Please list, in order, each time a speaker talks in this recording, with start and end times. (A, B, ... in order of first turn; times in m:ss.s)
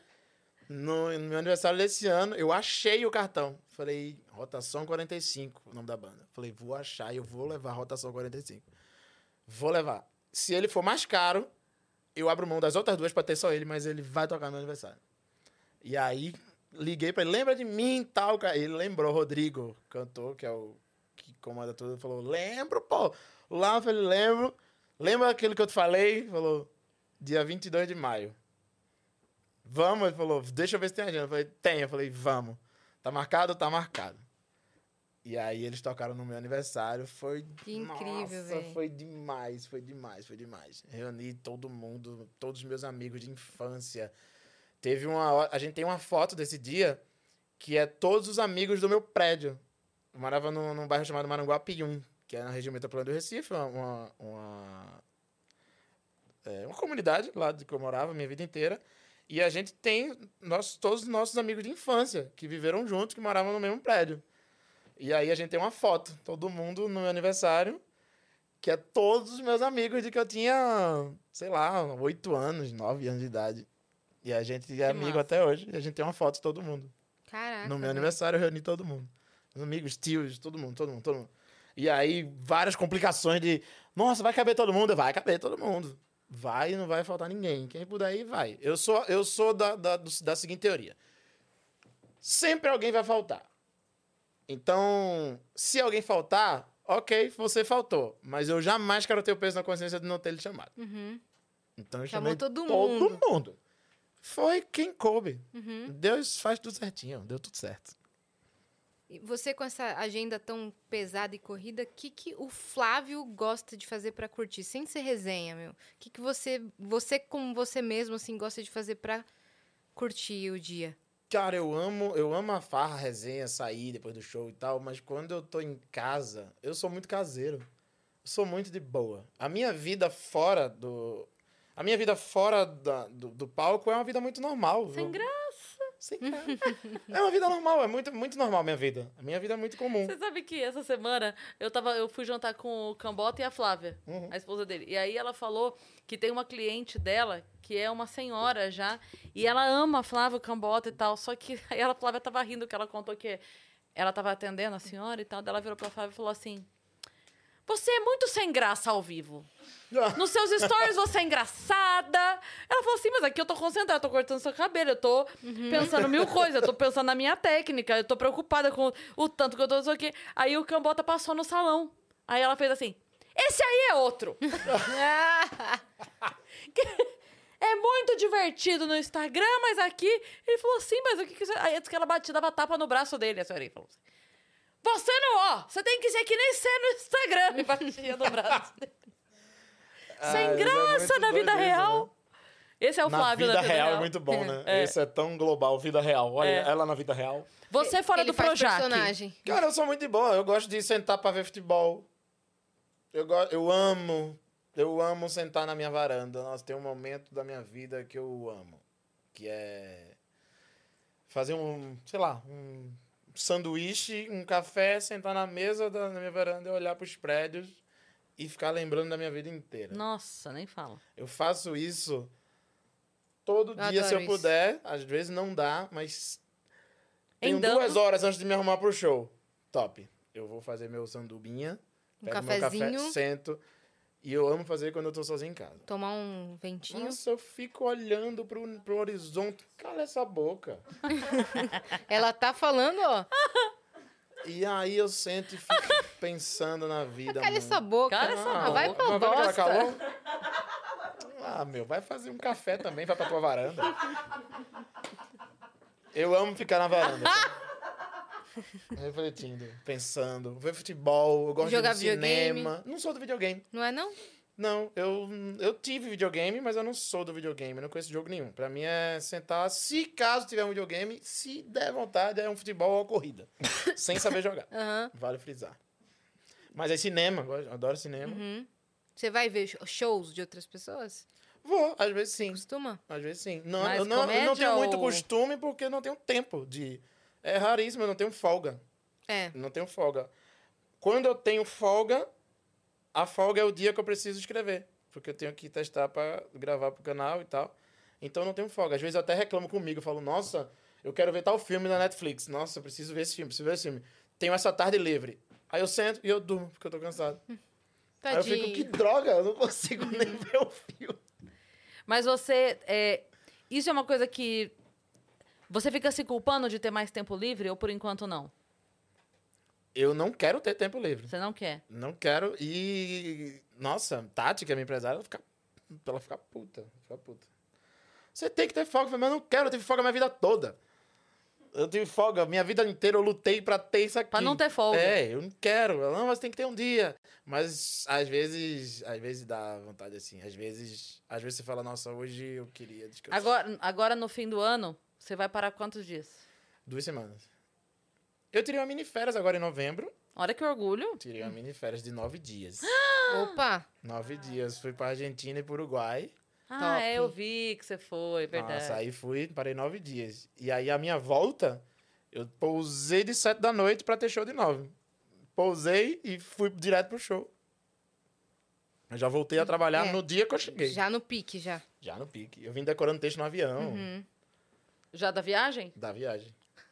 0:00.7-0:08.6 A
0:09.5-0:11.5 A
0:12.1-0:15.0 A
0:15.8-0:28.4 A
0:29.6-0:34.2 A
0:35.2-0:44.1 A
0:37.6-0:38.8 B
0:44.8-0:47.0 A
0:47.6-0:49.6 A
0:50.1-0:55.0 A
0:56.4-1:04.2 A
1:05.0-1:07.8 A
1:08.6-1:13.7 A
1:14.2-1:16.9 A
1:17.3-1:18.1 B
1:17.6-1:31.0 A
1:32.2-1:33.5 A
1:34.5-1:40.7 A
1:40.8-1:41.2 B
1:41.8-1:43.6 A
1:42.1-1:43.2 B
1:44.2-1:47.9 A
1:45.5-1:45.9 B
1:49.1-1:59.2 B
1:59.9-2:01.0 B
2:01.3-2:07.7 A
2:08.2-2:15.2 A
2:14.9-2:15.9 C
2:16.0-2:20.1 A
2:16.3-2:16.6 B
2:20.0-2:33.4 C
2:24.0-2:24.3 A
2:33.9-2:36.7 C
2:37.7-2:39.5 C
2:39.9-2:40.9 A
2:40.1-2:54.9 C
2:45.4-2:46.0 B
2:45.8-2:46.5 A
2:54.7-2:55.0 A
2:54.7-2:55.8 B
2:56.7-3:04.0 C
3:04.8-3:08.9 C
3:10.2-3:12.1 A
3:10.2-3:12.1 C
3:12.8-3:14.1 C
3:13.0-3:17.5 A
3:14.3-3:14.6 B
3:14.6-3:14.9 C
3:16.4-3:16.7 C
3:17.7-3:19.1 C
3:17.8-3:19.4 B
3:19.4-3:22.1 A
3:23.1-3:28.8 A
3:29.3-3:30.2 A
3:31.3-3:37.8 A
3:38.4-3:40.0 A
3:39.9-3:41.0 C
3:41.2-3:42.3 A
3:43.4-3:46.4 A
3:43.8-3:44.5 B
3:47.4-3:48.0 C
3:47.4-3:53.6 A
3:52.2-3:53.2 B
3:54.2-3:55.8 A
3:55.9-3:57.2 B
3:56.9-4:00.8 A
4:01.2-4:03.3 B
4:04.4-4:10.0 A
4:07.3-4:09.6 B
4:08.1-4:09.9 C
4:11.2-4:14.0 A
4:16.1-4:17.5 A
4:18.9-4:23.6 A
4:21.6-4:22.7 B
4:23.7-4:24.2 B
4:24.6-4:35.8 A
4:34.7-4:35.1 B
4:36.7-4:38.4 A
4:38.2-4:41.2 B
4:41.6-4:48.8 A
4:42.5-4:43.0 B
4:43.8-4:45.2 C
4:49.3-4:49.5 B
4:49.5-4:50.3 A
4:51.0-4:52.3 A
4:53.1-5:07.4 A
5:08.2-5:08.9 B
5:08.3-5:11.2 A
5:12.1-5:14.7 C
5:15.7-5:18.5 C
5:19.9-5:21.3 A
5:21.3-5:21.8 C
5:21.9-5:27.5 A
5:28.3-5:30.8 A
5:31.7-5:43.5 A
5:34.3-5:35.2 C
5:43.3-5:46.4 C
5:46.8-5:47.4 A
5:48.5-5:50.1 A
5:50.4-5:51.2 C
5:51.2-5:52.9 A
5:52.8-5:53.6 C
5:53.3-5:53.9 B
5:54.0-5:56.3 A
5:56.7-5:59.0 C
5:56.8-5:57.3 B
5:58.5-6:04.9 A
6:05.6-6:07.5 A
6:09.1-6:11.0 A
6:09.9-6:10.2 B
6:10.7-6:11.8 B
6:12.0-6:14.1 A
6:13.8-6:14.2 B
6:15.1-6:15.9 C
6:16.0-6:16.5 A